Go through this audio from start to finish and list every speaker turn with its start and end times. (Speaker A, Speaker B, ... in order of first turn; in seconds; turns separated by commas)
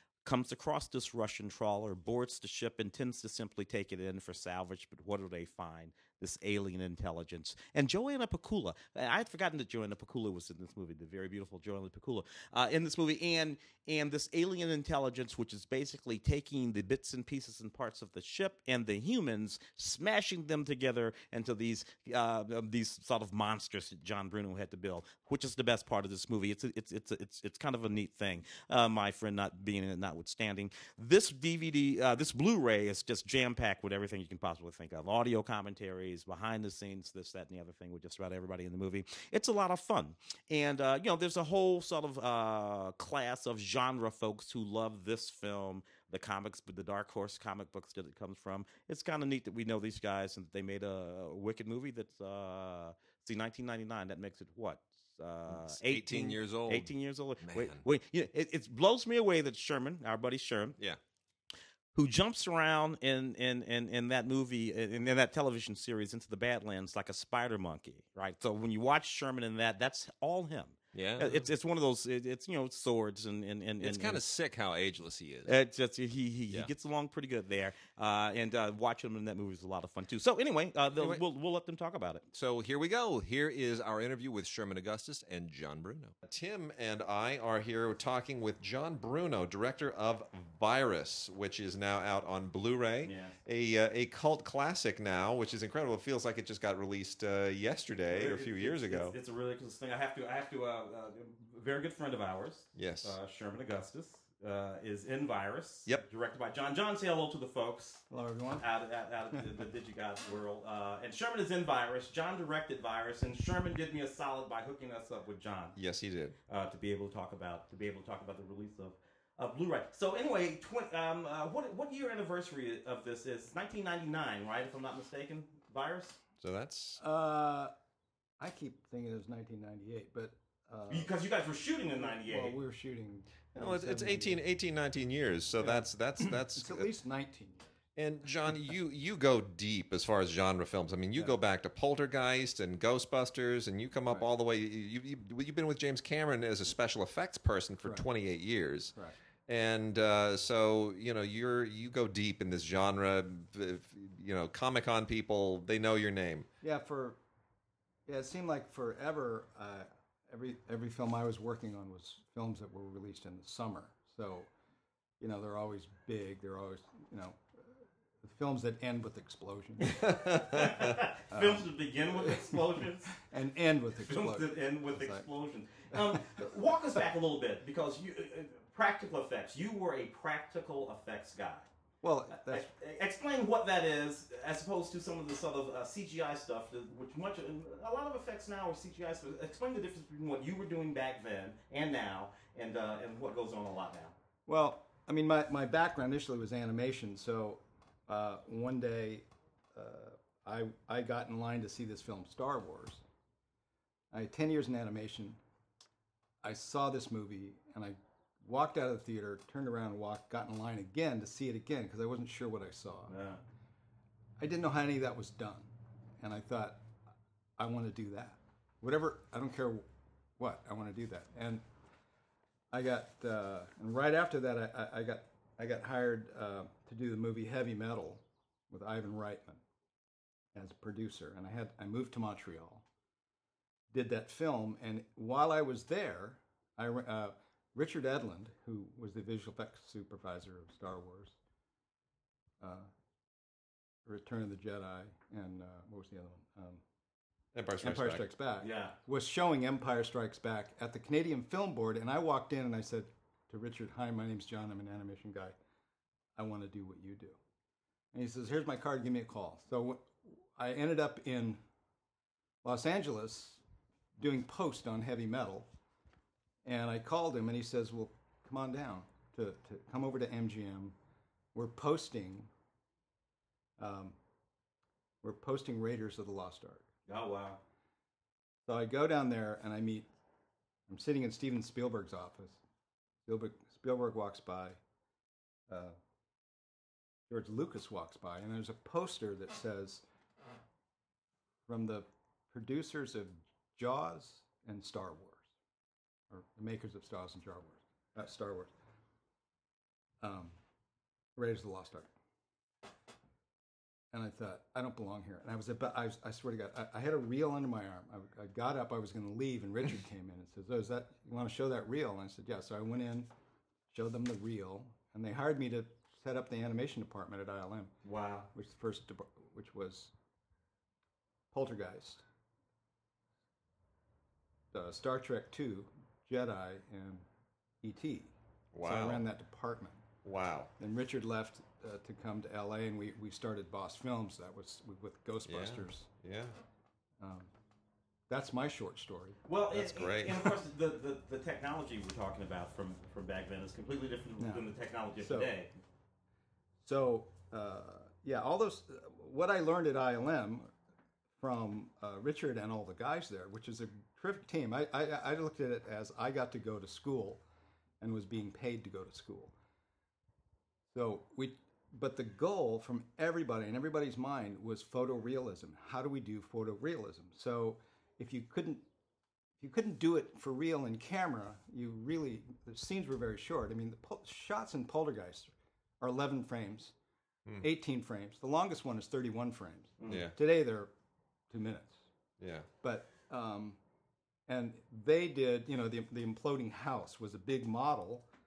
Speaker A: 0.2-60.8, Speaker B: 55.5-57.8, Speaker A: 62.0-74.2, Speaker B: 70.9-71.5, Speaker B: 73.8-75.5, Speaker A: 75.5-82.2, Speaker B: 81.0-81.2, Speaker B: 82.3-99.2, Speaker A: 93.0-93.4, Speaker A: 98.1-108.1, Speaker B: 102.8-103.2, Speaker C: 108.1-108.7, Speaker A: 108.6-115.8, Speaker B: 115.8-116.3, Speaker A: 116.5-126.2, Speaker B: 126.4-127.0, Speaker C: 127.0-127.7, Speaker C: 128.4-131.1, Speaker A: 130.9-132.6, Speaker C: 132.0-134.4, Speaker B: 133.6-136.9, Speaker C: 135.6-137.7, Speaker B: 138.0-148.9, Speaker B: 149.5-156.5, Speaker C: 156.6-157.2, Speaker C: 158.1-164.5, Speaker C: 165.2-167.5, Speaker C: 168.2-170.6, Speaker B: 170.0-170.8, Speaker A: 170.4-173.2, Speaker C: 171.3-172.6, Speaker C: 173.1-175.3, Speaker A: 174.0-181.7, Speaker C: 182.0-182.7, Speaker A: 182.3-194.2, Speaker C: 194.5-203.0, Speaker C: 204.1-205.4, Speaker C: 206.4-213.1, Speaker A: 213.1-213.4, Speaker C: 214.4-216.9, Speaker C: 217.6-219.8, Speaker C: 220.4-221.6, Speaker C: 222.7-229.6, Speaker C: 230.5-232.8, Speaker C: 233.9-241.3, Speaker C: 242.6-242.9, Speaker C: 244.1-246.8, Speaker B: 247.5-248.3, Speaker C: 247.8-255.6, Speaker A: 248.6-249.0, Speaker C: 256.4-257.4, Speaker C: 258.1-261.6, Speaker C: 262.6-263.6, Speaker C: 264.2-265.7, Speaker C: 266.6-270.9, Speaker C: 271.5-272.5, Speaker C: 273.8-274.1, Speaker C: 275.2-276.9, Speaker A: 277.1-277.6, Speaker C: 278.7-280.1, Speaker C: 280.9-282.6, Speaker C: 283.3-284.8, Speaker C: 285.7-286.0, Speaker C: 287.3-290.0, Speaker C: 291.7-295.5, Speaker C: 296.3-298.7, Speaker C: 300.2-300.5, Speaker C: 301.4-302.1, Speaker C: 304.1-313.3, Speaker C: 313.9-317.9, Speaker A: 318.0-318.5, Speaker C: 318.5-320.1, Speaker C: 321.5-322.2, Speaker C: 324.7-327.2, Speaker C: 327.8-328.3, Speaker B: 328.7-329.2, Speaker C: 328.8-330.0, Speaker B: 330.2-330.7, Speaker C: 330.8-336.1, Speaker B: 335.5-336.6, Speaker C: 337.2-337.5, Speaker C: 338.3-339.4, Speaker A: 339.4-345.7, Speaker B: 339.7-340.5, Speaker C: 344.4-344.7, Speaker C: 345.2-345.5, Speaker C: 346.8-350.7, Speaker C: 351.4-357.4, Speaker C: 358.0-359.5, Speaker C: 360.9-368.9, Speaker C: 369.6-376.9, Speaker C: 377.6-380.9, Speaker A: 380.0-380.3, Speaker B: 380.1-380.4, Speaker C: 381.5-382.0, Speaker B: 382.4-382.7, Speaker C: 382.8-383.8, Speaker C: 384.5-388.3